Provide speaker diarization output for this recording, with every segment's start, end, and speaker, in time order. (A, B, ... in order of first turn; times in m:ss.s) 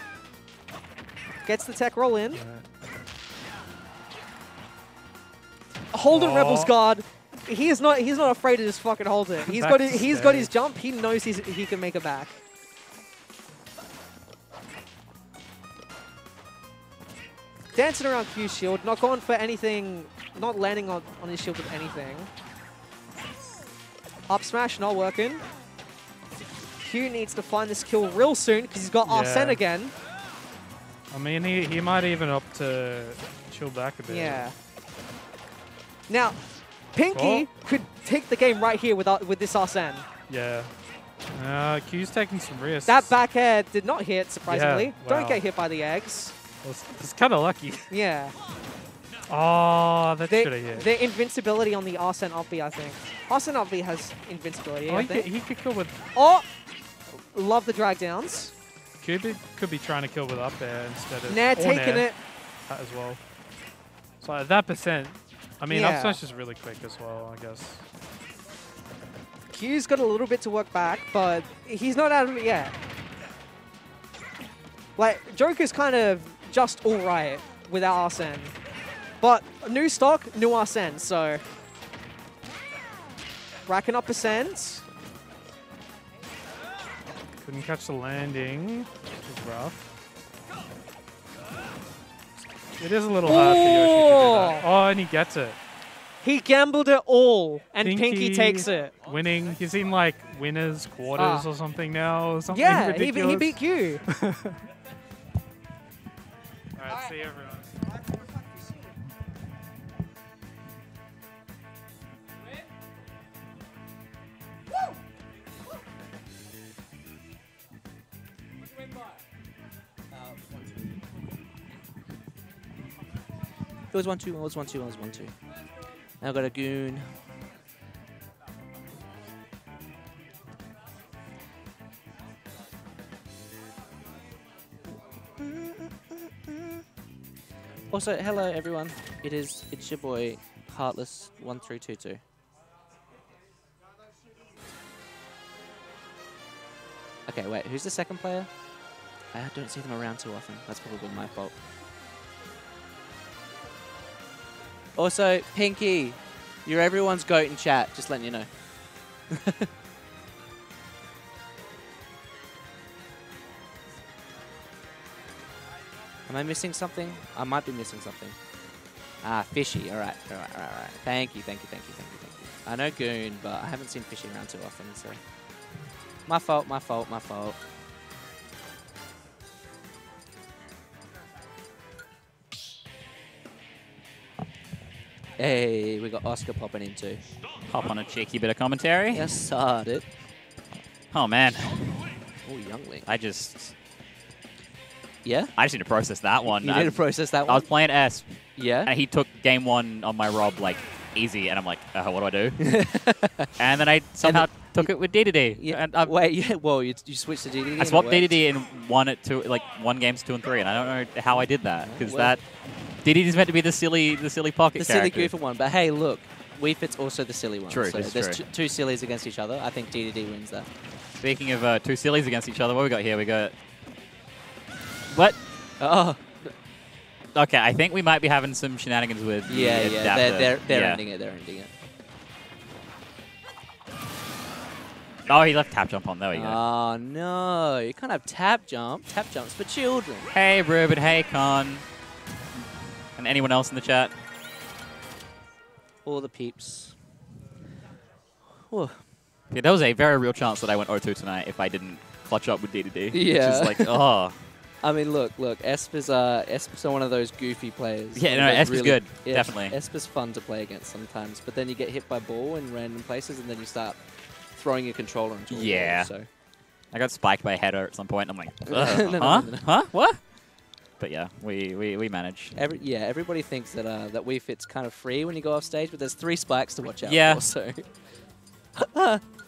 0:01.4-0:02.4 A
0:02.3-0:02.6 B
0:05.9-0:12.4 A
0:06.1-0:06.7 B
0:09.4-0:10.5 B
0:17.7-0:22.3 A
0:24.3-0:25.4 A
0:26.8-0:29.9 A
0:29.0-0:29.6 B
0:31.1-0:34.5 B
0:34.1-0:34.5 A
0:36.1-0:36.4 A
0:36.9-0:40.1 A
0:37.1-0:37.5 B
0:40.3-0:40.7 B
0:41.3-0:43.1 B
0:42.8-0:46.4 A
0:44.5-0:45.4 B
0:46.6-0:47.9 B
0:47.9-0:48.4 A
0:49.3-0:50.9 B
0:50.3-0:55.3 A
0:54.9-0:56.0 B
0:56.1-0:56.4 A
0:57.1-0:58.5 A
0:59.0-1:02.1 B
1:01.3-1:02.2 A
1:02.6-1:03.2 B
1:04.2-1:07.8 B
1:05.7-1:06.2 A
1:09.5-1:12.7 A
1:15.0-1:18.5 A
1:19.2-1:21.4 A
1:23.7-1:24.8 A
1:27.4-1:29.8 B
1:32.8-1:35.6 B
1:33.2-1:34.6 A
1:36.2-1:39.0 A
1:37.8-1:44.6 B
1:41.2-1:41.5 A
1:42.5-1:44.0 A
1:46.8-1:47.8 B
2:03.9-2:05.3 C
2:06.2-2:07.1 C
2:17.9-2:22.2 C
2:27.3-2:28.5 C
2:29.3-2:31.6 C
2:35.0-2:38.6 C
2:39.3-2:39.7 C
2:46.2-2:48.4 C
2:49.2-2:55.2 C
2:56.2-2:57.6 C
3:05.4-3:07.2 C
3:07.7-3:09.4 D
3:09.1-3:10.1 C
3:11.1-3:12.0 D
3:12.4-3:13.1 C
3:13.0-3:13.7 D
3:15.2-3:15.5 C
3:15.5-3:22.8 D
3:16.4-3:17.7 C
3:18.6-3:18.9 C
3:22.6-3:23.5 C
3:23.6-3:26.1 D
3:24.2-3:28.4 C
3:27.8-3:35.3 D
3:31.8-3:32.4 C
3:34.8-3:40.7 C
3:37.7-3:38.4 D
3:41.2-3:43.5 D
3:45.1-3:45.4 D
3:45.8-3:46.5 C
3:47.3-3:51.0 D
3:49.5-3:51.7 C
3:55.3-3:56.6 D
3:56.3-4:00.3 C
4:00.3-4:01.8 D
4:03.2-4:04.1 D
4:06.0-4:06.9 C
4:08.6-4:09.0 C
4:09.5-4:14.4 D
4:13.1-4:14.0 C
4:14.8-4:26.3 C
4:18.1-4:19.8 D
4:25.5-4:26.2 D
4:26.9-4:30.2 D
4:28.7-4:29.7 C
4:31.0-4:32.6 D
4:32.5-4:37.9 C
4:37.0-4:37.4 D
4:38.7-4:39.2 C